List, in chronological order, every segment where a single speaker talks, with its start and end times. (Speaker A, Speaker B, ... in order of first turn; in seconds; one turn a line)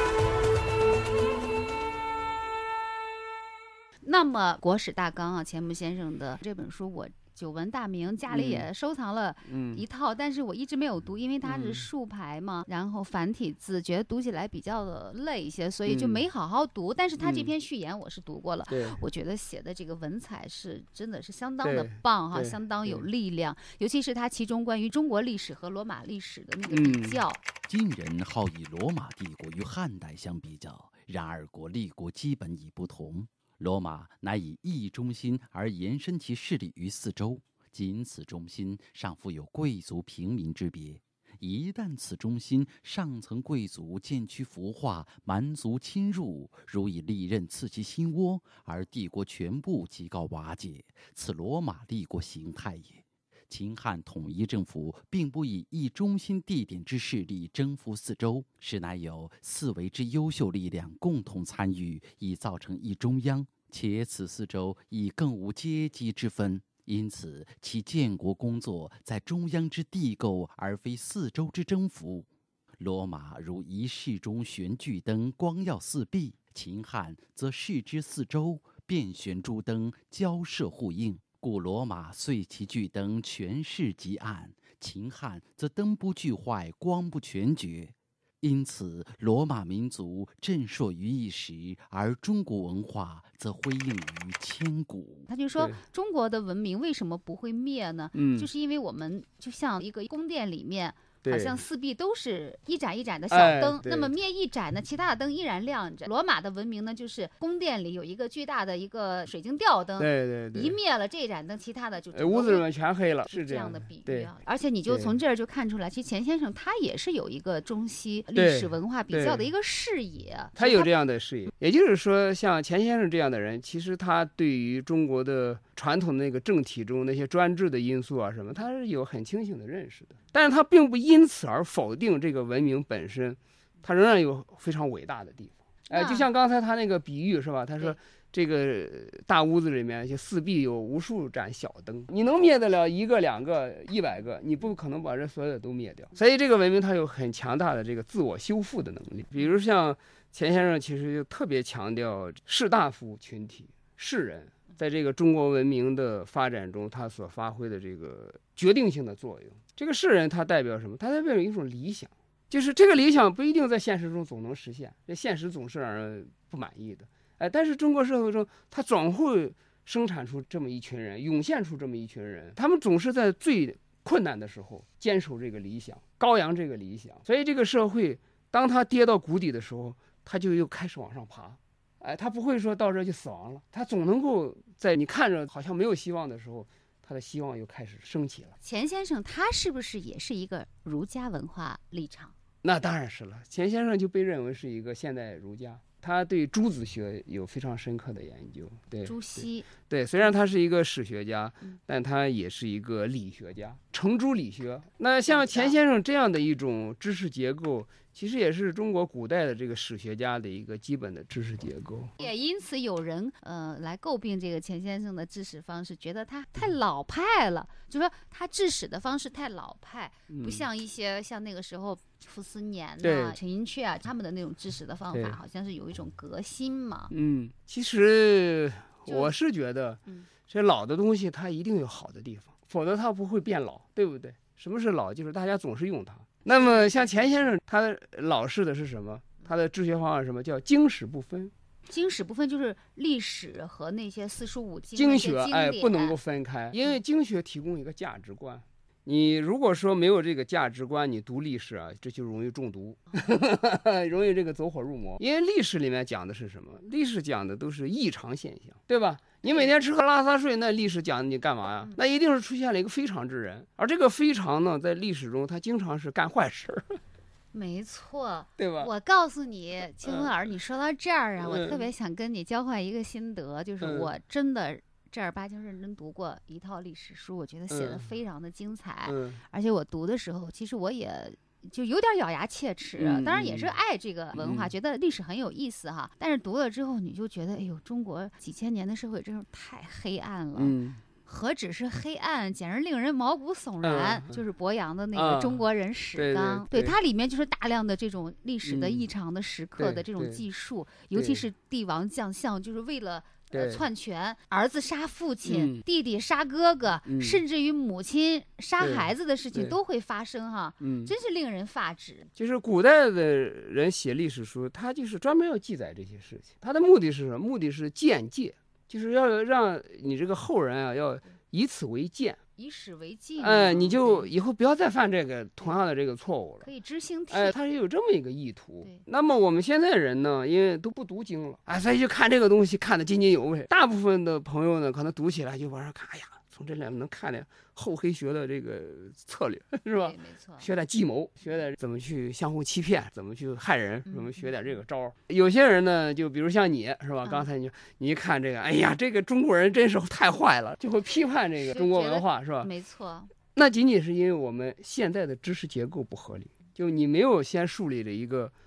Speaker A: 4.0-27.4
Speaker B: 8.3-8.7
Speaker B: 9.5-9.8
Speaker B: 11.4-11.9
Speaker B: 15.9-16.2
Speaker B: 17.2-17.5
Speaker B: 18.7-19.0
Speaker B: 21.6-23.1
Speaker B: 26.7-27.2
Speaker C: 27.7-72.3
Speaker C: 72.8-95.3
Speaker A: 95.3-112.7
Speaker B: 98.2-98.5
Speaker B: 101.2-101.6
Speaker B: 103.3-104.1
Speaker B: 110.0-110.8
Speaker B: 112.1-114.3
Speaker A: 113.3-120.9
Speaker B: 114.9-115.2
Speaker B: 118.3-119.5
Speaker B: 120.6-188.6
Speaker A: 135.9-136.3
Speaker A: 188.6-192.3
Speaker B: 192.6-212.1
Speaker A: 199.1-199.7
Speaker A: 205.3-205.8
Speaker A: 212.2-227.1
Speaker B: 220.3-220.7
Speaker B: 223.0-223.4
Speaker B: 227.1-241.5
Speaker A: 229.1-229.3
Speaker A: 236.5-237.1
Speaker A: 241.9-246.2
Speaker B: 244.9-266.9
Speaker A: 259.4-259.7
Speaker A: 267.5-312.3
Speaker B: 268.6-268.9
Speaker B: 270.0-270.3
Speaker B: 271.4-271.9
Speaker B: 273.8-274.1
Speaker B: 277.7-278.1
Speaker B: 279.1-279.4
Speaker B: 283.0-283.7
Speaker B: 284.4-284.7
Speaker B: 290.6-291.0
Speaker B: 293.8-294.4
Speaker B: 295.1-295.6
Speaker B: 296.1-297.0
Speaker B: 298.6-299.1
Speaker B: 299.8-300.4
Speaker B: 301.1-301.4
Speaker B: 303.5-303.8
Speaker B: 305.5-305.8
Speaker B: 307.1-307.4
Speaker B: 308.8-309.8
Speaker B: 310.8-311.1
Speaker B: 312.4-322.4
Speaker A: 322.6-324.3
Speaker B: 323.4-326.7
Speaker A: 326.6-327.6
Speaker B: 327.3-352.7
Speaker A: 339.9-340.7
Speaker A: 351.6-353.3
Speaker B: 353.5-358.5